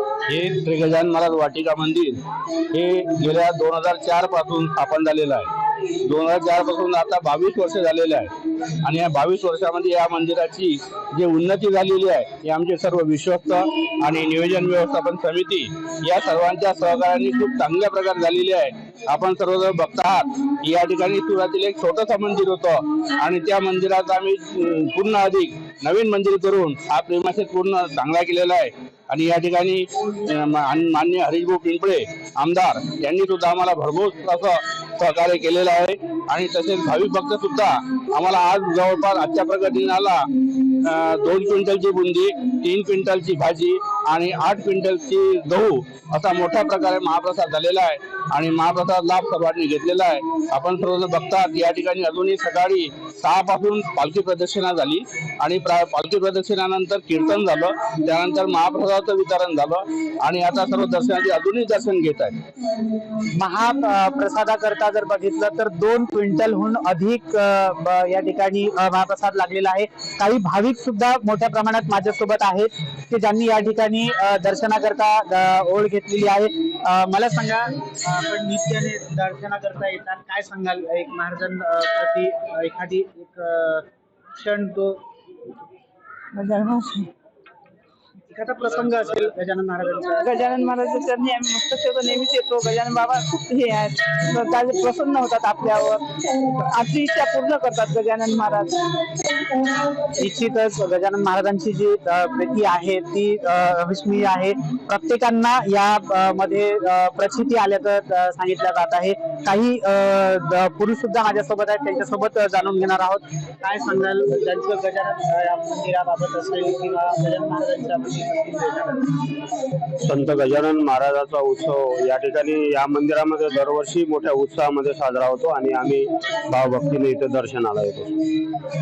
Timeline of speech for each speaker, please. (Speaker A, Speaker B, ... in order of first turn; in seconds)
Speaker A: 0.2-2.2, 2.7-5.5, 6.0-8.3, 8.8-62.4
Speaker B: 63.3-85.0, 88.3-90.3, 100.1-119.2
Speaker C: 86.3-87.1, 90.2-98.8
Speaker D: 120.0-128.1